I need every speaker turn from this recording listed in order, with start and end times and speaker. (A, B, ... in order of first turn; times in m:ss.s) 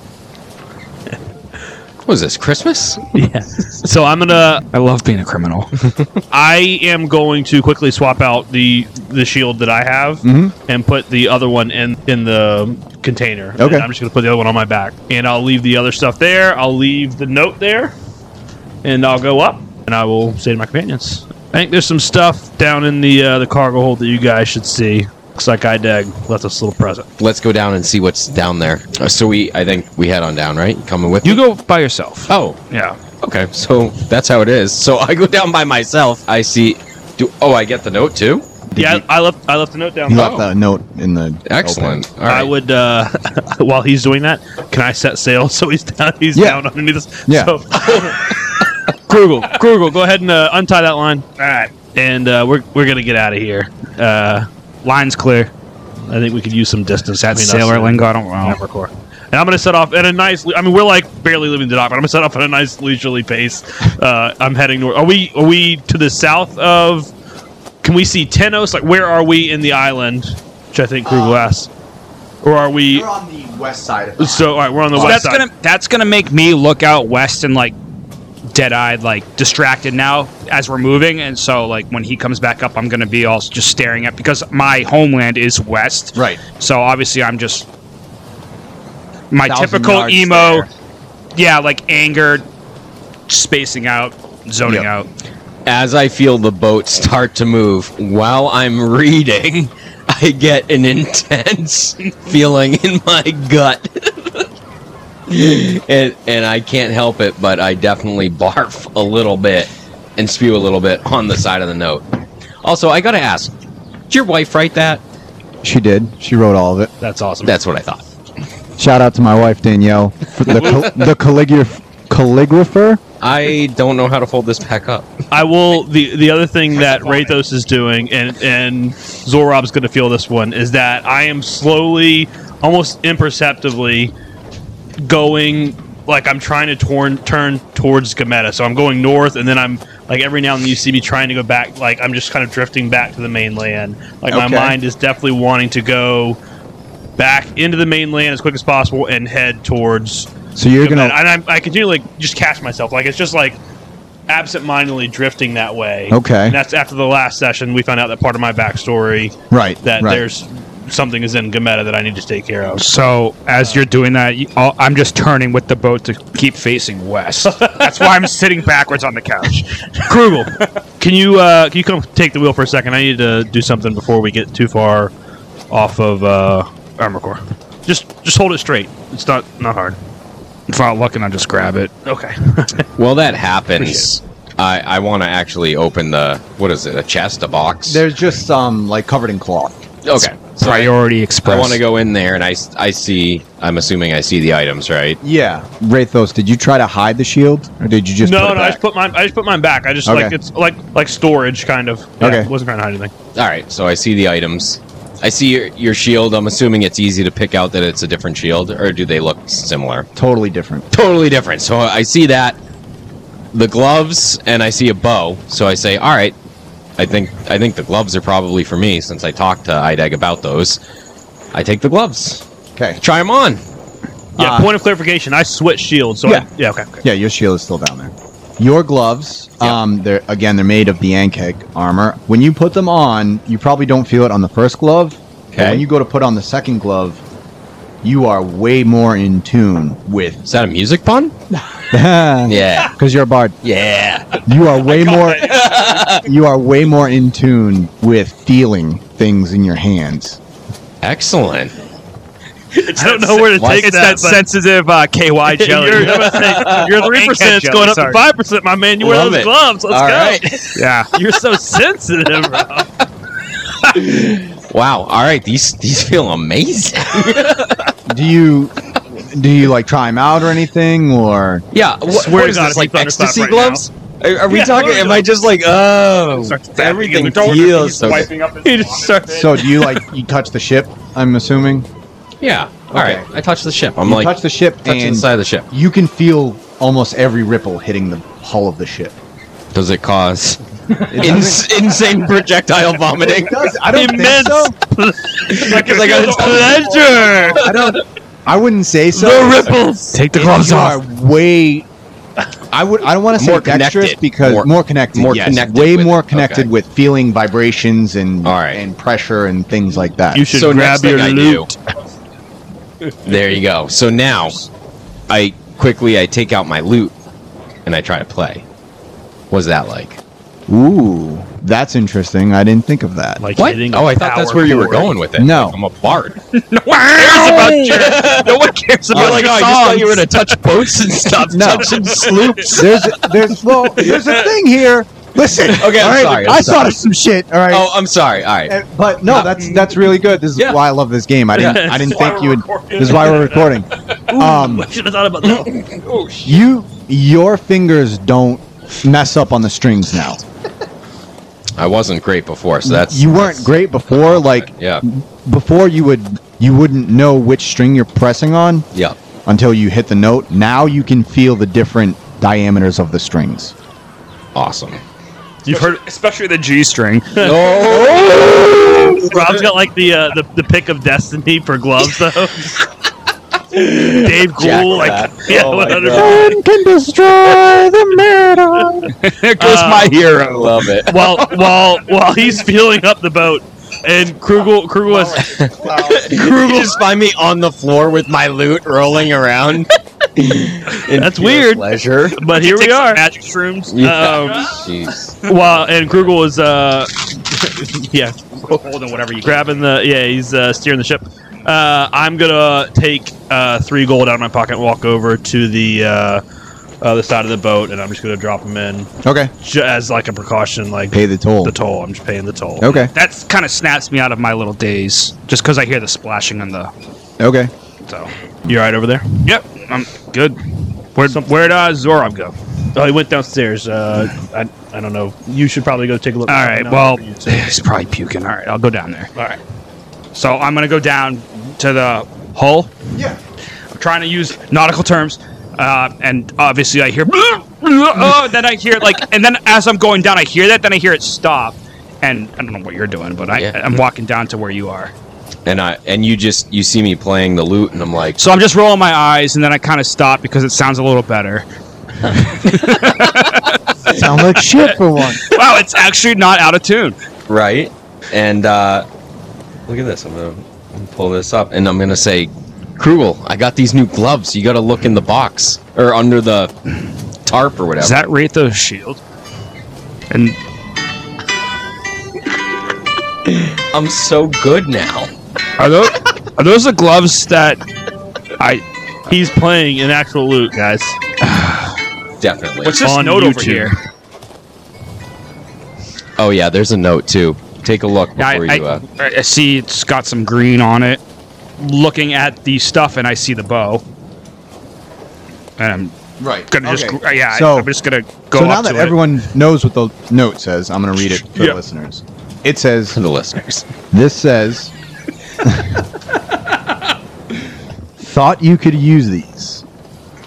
0:02.0-0:03.1 A
0:03.1-0:04.6 B
0:04.7-0:05.7 C
0:06.3-0:17.9 B
0:10.2-0:10.5 D
0:13.6-0:13.9 D
0:18.8-0:27.1 B
0:27.2-0:31.4 A
0:31.2-0:33.0 C
0:32.3-0:32.6 A
0:33.2-0:38.4 A
0:38.7-0:39.0 D
0:38.8-0:40.4 B
0:40.1-0:42.0 D
0:40.1-0:40.4 A
0:41.4-0:42.5 A
0:42.2-0:48.3 B
0:46.3-0:46.6 D
0:47.2-0:47.5 D
0:49.1-0:51.2 B
0:51.4-0:51.7 C
0:51.9-0:54.5 B
0:54.8-0:55.5 C
0:56.1-1:07.1 B
0:57.2-0:58.6 C
1:07.8-1:11.7 B
1:11.0-1:11.5 D
1:12.4-1:13.1 B
1:12.9-1:15.2 D
1:14.2-1:15.4 B
1:14.9-1:17.8 C
1:18.5-1:27.7 C
1:26.1-1:26.4 D
1:29.3-1:30.7 C
1:29.4-1:30.7 D
1:31.3-1:32.5 C
1:33.3-1:35.1 C
1:35.6-1:44.4 A
1:45.3-1:52.0 A
1:52.6-1:53.5 A
1:54.1-1:55.0 A
1:55.6-1:56.9 D
1:57.0-1:57.5 B
1:57.4-1:58.0 A
1:58.8-2:03.0 D
2:00.6-2:00.9 A
2:03.2-2:05.1 A
2:05.3-2:14.1 B
2:15.0-2:26.4 B
2:24.3-2:24.8 D
2:27.2-2:33.6 B
2:30.5-2:31.2 D
2:34.3-2:42.8 B
2:36.1-2:36.6 D
2:39.5-2:40.2 D
2:42.8-2:50.7 C
2:50.1-2:55.1 B
2:55.7-3:00.0 B
3:00.7-3:01.9 C
3:02.0-3:02.9 B
3:03.0-3:08.0 A
3:07.8-3:09.8 D
3:10.0-3:10.9 A
3:10.6-3:11.8 C
3:11.4-3:15.2 A
3:15.2-3:18.8 D
3:18.2-3:23.1 B
3:20.0-3:20.4 D
3:22.2-3:22.5 D
3:23.3-3:30.1 A
3:30.2-3:30.8 D
3:30.9-3:32.6 A
3:33.5-3:36.3 A
3:37.0-3:40.8 A
3:41.5-3:42.4 A
3:42.7-3:43.0 D
3:43.0-3:43.6 A
3:44.4-3:47.0 B
3:44.4-3:44.7 D
3:47.0-3:57.2 D
3:55.5-3:55.8 A
3:58.0-4:00.4 D
4:00.4-4:01.3 A
4:01.8-4:03.6 D
4:02.5-4:02.9 A
4:03.6-4:04.4 A
4:04.4-4:10.4 D
4:04.8-4:06.0 C
4:05.4-4:06.2 A
4:11.0-4:11.7 A
4:12.7-4:18.2 C
4:13.0-4:14.4 B
4:15.5-4:22.9 B
4:16.1-4:16.8 A
4:19.0-4:20.8 A
4:20.7-4:21.1 C
4:23.8-4:27.9 A
4:28.1-4:31.6 D
4:31.7-4:38.3 A
4:32.1-4:33.8 B
4:34.5-4:35.3 B
4:36.4-4:37.6 B
4:37.0-4:39.5 C
4:38.6-4:40.0 B
4:39.3-4:41.9 D
4:42.4-4:45.7 A
4:42.9-4:43.3 D
4:44.0-4:49.1 D
4:49.7-4:53.7 A
4:51.1-4:51.7 D
4:53.2-4:54.7 D
4:53.9-4:57.6 B
4:55.5-4:58.0 A
4:55.5-4:57.7 C
4:57.6-4:59.8 D
4:59.5-5:01.0 C
5:00.3-5:01.9 D
5:02.7-5:10.5 D
5:03.3-5:06.7 A
5:08.4-5:08.8 A
5:10.3-5:11.7 B
5:10.5-5:11.7 A
5:13.2-5:14.6 A
5:15.3-5:17.1 A
5:17.8-5:18.6 A
5:19.5-5:20.2 A
5:20.7-5:23.4 D
5:23.4-5:25.1 B
5:23.6-5:26.4 A
5:25.4-5:25.8 D
5:26.5-5:30.6 C
5:27.1-5:34.5 A
5:29.1-5:29.5 D
5:31.5-5:37.9 D
5:31.8-5:32.7 C
5:35.6-5:37.0 A
5:37.7-5:38.8 A
5:38.6-5:44.9 D
5:40.6-5:40.8 A
5:41.5-5:43.7 B
5:41.6-5:41.9 A
5:42.1-5:43.5 C
5:44.2-5:45.8 B
5:46.0-5:46.5 C
5:46.4-5:50.4 D
5:51.8-5:55.0 A
5:52.8-5:58.8 D
5:59.4-6:03.7 D
6:04.5-6:05.0 A
6:05.6-6:06.0 B
6:05.7-6:07.7 C
6:07.4-6:09.6 A
6:07.4-6:07.8 B
6:09.2-6:12.7 B
6:13.7-6:16.6 A
6:14.0-6:16.6 B
6:16.1-6:19.1 D
6:19.0-6:21.9 C
6:19.6-6:20.2 B
6:20.3-6:21.3 A
6:21.0-6:25.6 B
6:25.1-6:26.2 C
6:25.5-6:32.4 A
6:26.2-6:26.9 B
6:31.0-6:33.2 B
6:32.4-6:34.8 C
6:33.9-6:35.4 A
6:34.0-6:34.8 B
6:35.4-6:38.8 B
6:38.6-6:39.8 C
6:39.4-6:46.4 B
6:47.0-6:49.1 B
6:49.2-6:49.5 D
6:49.6-6:52.9 B
6:51.1-6:51.7 D
6:52.8-6:53.1 D
6:52.9-6:56.9 C
6:57.4-6:57.7 D
6:58.6-6:59.4 B
6:59.4-7:02.5 C
7:01.2-7:01.6 B
7:02.9-7:07.7 B
7:06.5-7:09.3 C
7:10.3-7:12.9 C
7:13.1-7:13.4 D
7:13.9-7:25.1 C
7:25.6-7:28.5 A
7:28.4-7:31.6 C
7:32.2-7:34.4 C
7:34.1-7:35.4 D
7:35.4-7:37.2 C
7:37.5-7:39.0 A
7:39.9-7:46.7 A
7:47.4-7:48.2 A
7:48.0-7:49.2 C
7:50.3-7:50.6 C
7:53.5-7:55.3 A
7:55.8-7:57.8 C
7:58.6-7:58.8 C
7:59.3-8:01.1 B
8:02.4-8:03.0 A
8:02.8-8:04.0 C
8:03.0-8:03.9 B
8:06.4-8:09.0 A
8:08.4-8:11.2 C
8:11.8-8:14.0 C
8:15.8-8:16.2 C
8:16.4-8:17.9 D
8:16.7-8:19.3 C
8:18.5-8:23.2 D
8:23.1-8:23.8 A
8:24.1-8:24.9 D
8:25.6-8:26.0 D
8:28.2-8:29.8 D